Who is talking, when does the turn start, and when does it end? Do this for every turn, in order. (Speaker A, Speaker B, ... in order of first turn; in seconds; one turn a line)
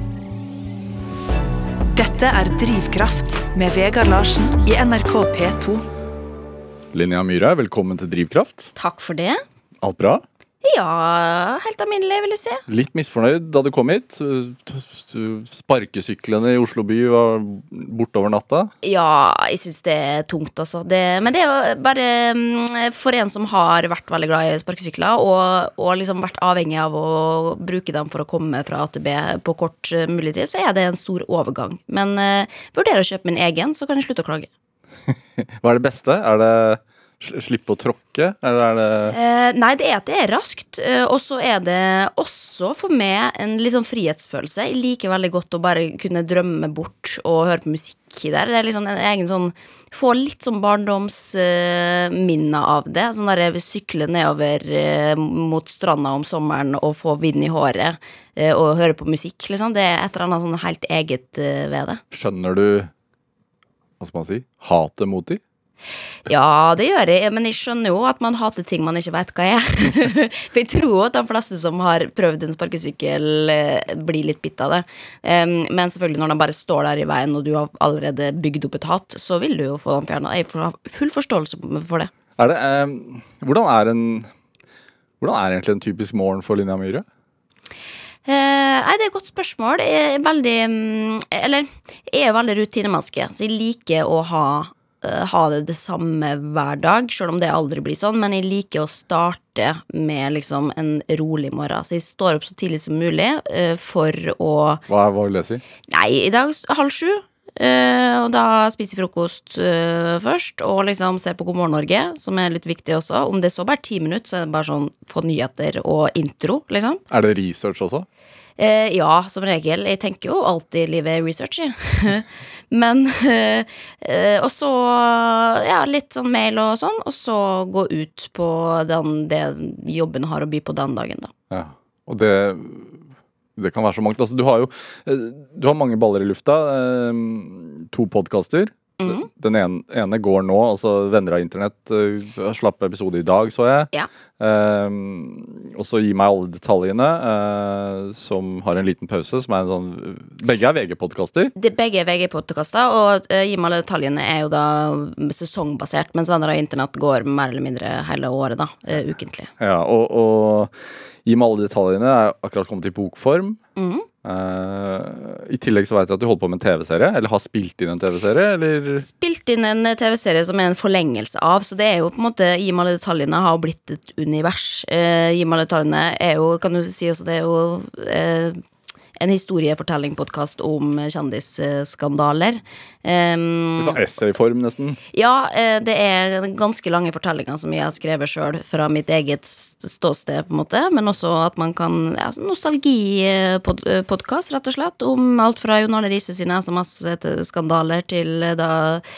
Speaker A: 1.9-5.8
Speaker B: 6.9-8.7
Speaker C: 8.8-9.4
Speaker B: 9.8-10.2
Speaker C: 10.6-12.6
Speaker B: 12.7-18.7
Speaker C: 18.8-34.5
Speaker B: 35.1-39.2
Speaker C: 39.1-62.0
Speaker B: 62.1-62.9
Speaker B: 64.0-65.4
Speaker C: 66.3-82.1
Speaker B: 82.4-84.3
Speaker B: 85.2-87.1
Speaker C: 88.3-104.8
Speaker B: 104.9-105.6
Speaker C: 105.9-117.0
Speaker B: 117.1-118.1
Speaker C: 118.6-131.3
Speaker B: 131.5-133.0
Speaker B: 133.6-151.5
Speaker C: 139.0-139.3
Speaker C: 151.6-159.5
Speaker B: 159.6-160.7
Speaker B: 161.2-163.6
Speaker C: 163.8-164.1
Speaker B: 164.2-169.1
Speaker C: 169.0-178.6
Speaker C: 179.2-184.0
Speaker B: 183.8-185.0
Speaker C: 185.1-199.0